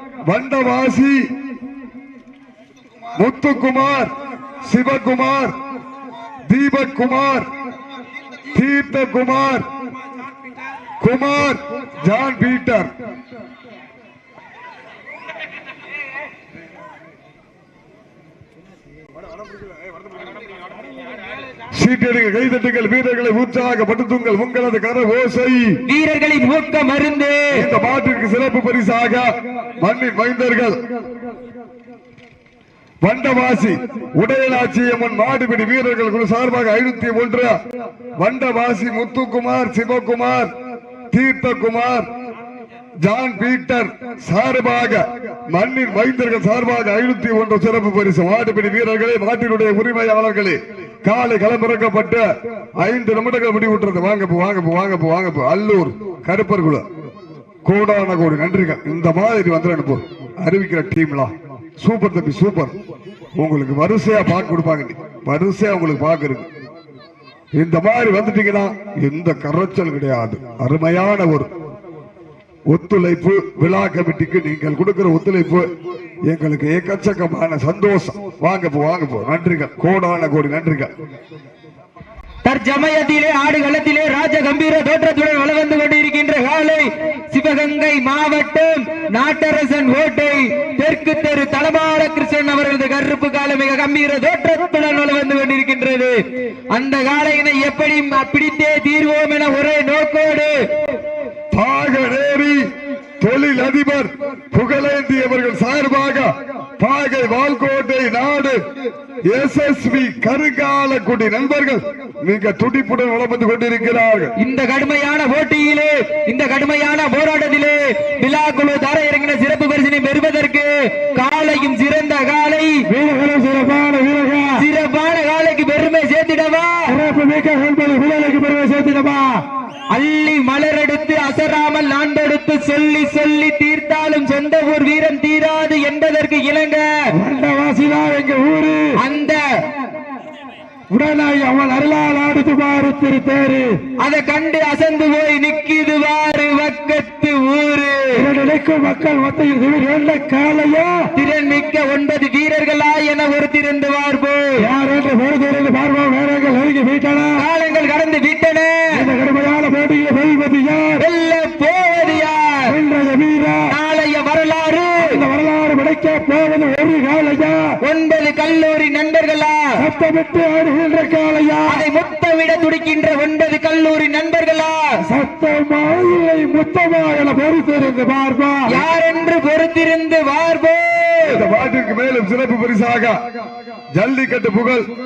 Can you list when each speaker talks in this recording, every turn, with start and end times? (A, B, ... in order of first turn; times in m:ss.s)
0:00.3-0:01.2 A
0:03.2-0:04.1 A
0:04.6-0:05.5 A
0:06.5-0:07.5 A
0:08.5-0:09.6 A
0:11.0-0:12.9 A
0:21.7-0:25.7 A
0:25.9-0:27.6 B
0:27.5-0:29.3 A
0:29.8-0:30.8 A
0:33.0-0:37.6 A
0:38.2-0:40.5 A
0:41.1-0:42.1 A
0:43.0-0:52.2 A
0:52.8-0:56.8 A
0:57.6-1:02.8 A
1:03.4-1:06.5 A
1:07.6-1:11.5 A
1:12.7-1:15.7 A
1:16.3-1:20.9 A
1:22.4-1:36.2 B
1:36.7-1:40.6 B
1:41.5-1:42.6 A
1:43.2-1:48.6 A
1:49.3-1:54.3 A
1:54.4-2:02.8 B
2:02.9-2:04.6 C
2:04.6-2:06.9 B
2:06.9-2:09.4 C
2:09.9-2:16.9 B
2:17.1-2:19.0 C
2:19.0-2:19.4 B
2:20.9-2:23.7 C
2:24.0-2:28.3 B
2:28.1-2:31.0 C
2:31.1-2:34.6 B
2:34.6-2:37.4 C
2:37.4-2:39.0 B
2:38.9-2:41.0 C
2:41.0-2:42.8 B
2:42.7-2:43.7 C
2:43.7-2:45.2 B
2:45.0-2:47.7 C
2:47.8-2:49.6 B
2:49.8-2:51.8 C
2:51.7-2:55.0 B
2:55.1-2:58.8 C
2:58.7-3:01.4 B
3:01.2-3:03.2 A
3:04.0-3:04.8 A